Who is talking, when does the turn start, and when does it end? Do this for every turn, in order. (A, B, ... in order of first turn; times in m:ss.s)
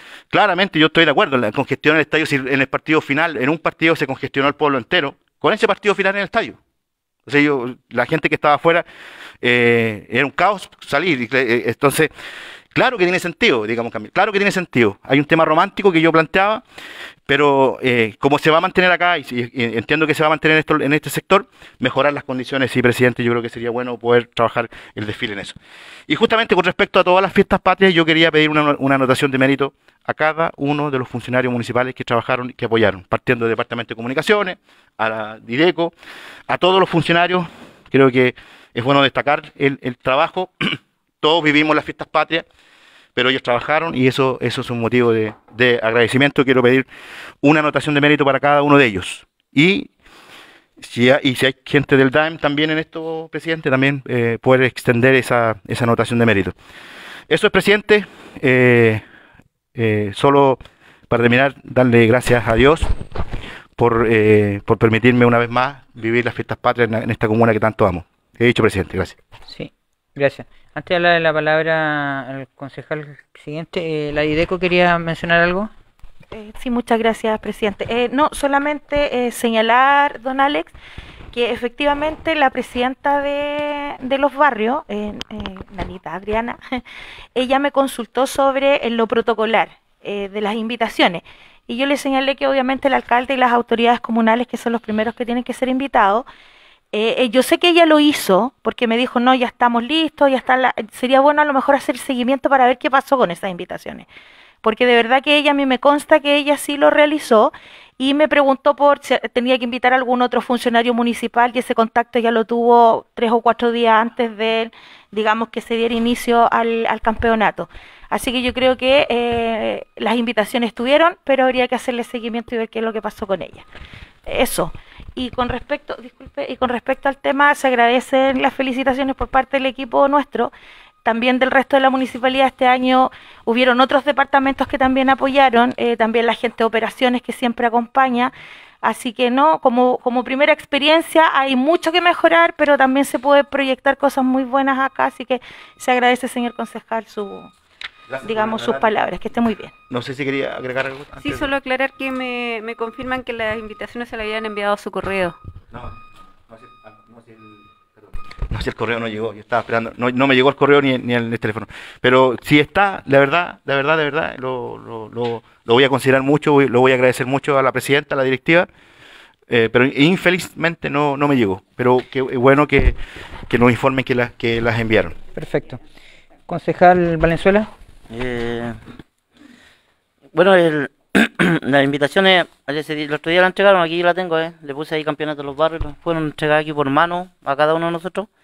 0:00.3-0:06.6 A
0:07.3-0:08.8 A
0:09.4-0:12.1 A
0:12.7-0:16.6 A
0:17.3-0:25.6 A
0:26.1-0:35.9 A
0:36.5-0:42.4 A
0:43.2-0:46.9 A
0:47.4-0:49.9 A
0:50.8-0:56.6 A
0:57.3-0:59.0 A
0:59.8-1:00.6 A
1:01.1-1:02.9 A
1:03.8-1:09.2 A
1:09.5-1:15.7 B
1:16.3-1:20.7 C
1:21.3-1:26.8 C
1:27.4-1:36.3 C
1:36.9-1:44.1 C
1:44.6-2:03.7 C
2:04.3-2:10.5 C
2:11.0-2:27.5 C
2:28.1-2:28.9 A
2:28.2-2:29.7 C
2:29.9-2:31.5 A
2:31.2-2:35.4 D
2:36.5-2:48.7 A
2:49.5-2:55.2 A
2:55.4-2:55.8 B
2:56.5-2:57.7 B
2:58.1-2:58.8 E
3:00.3-3:08.3 E